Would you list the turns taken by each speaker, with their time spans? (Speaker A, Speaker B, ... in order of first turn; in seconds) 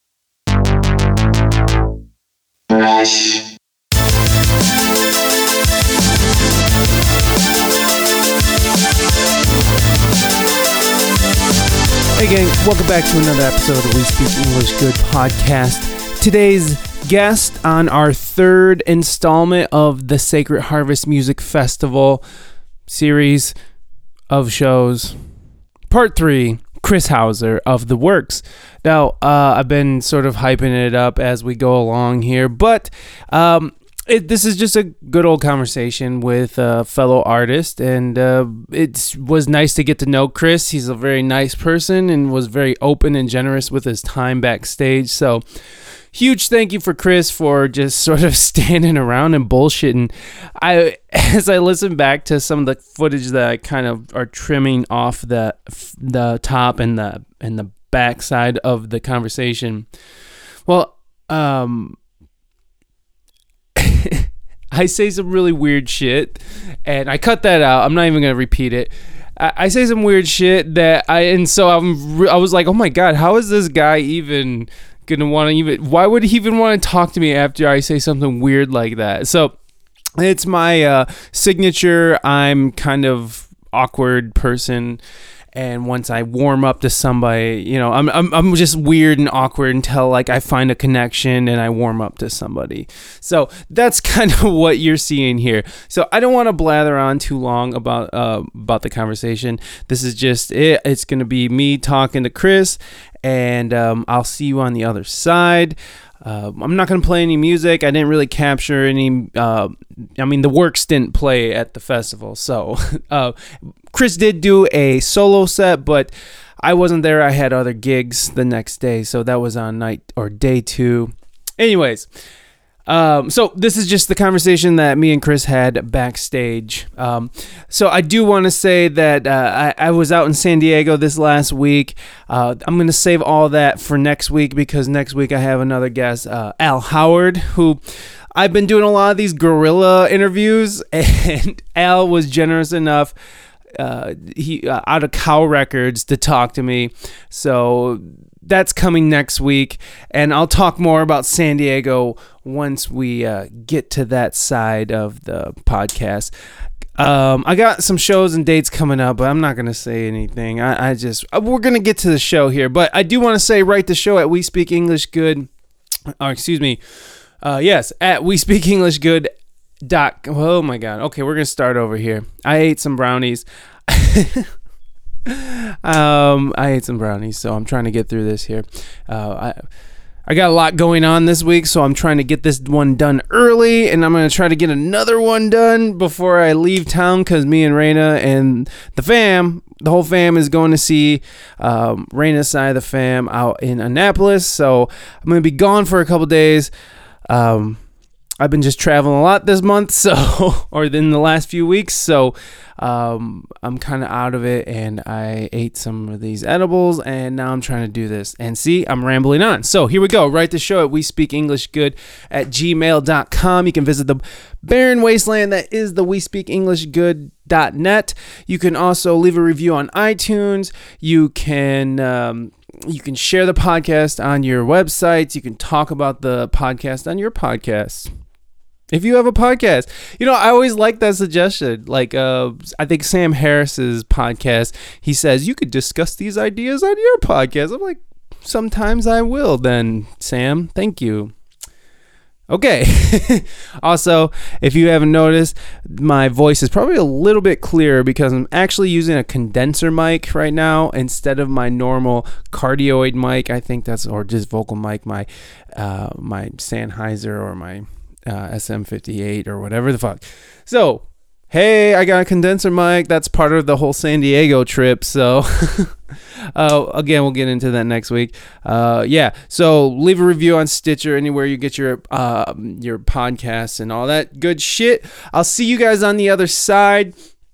Speaker A: 12.2-22.2, 22.9-23.5, 24.3-25.2, 25.9-45.4, 46.1-59.9, 60.7-62.0, 63.8-79.5, 80.2-85.0, 85.5-113.4, 113.9-122.1, 122.9-137.8, 138.4-143.1, 143.8-156.3, 157.0-165.5, 166.2-166.8, 167.4-169.3, 169.9-174.5, 175.3-179.6, 180.3-196.7, 197.3-197.8, 198.4-228.1, 228.9-241.3, 242.5-265.9, 266.6-277.1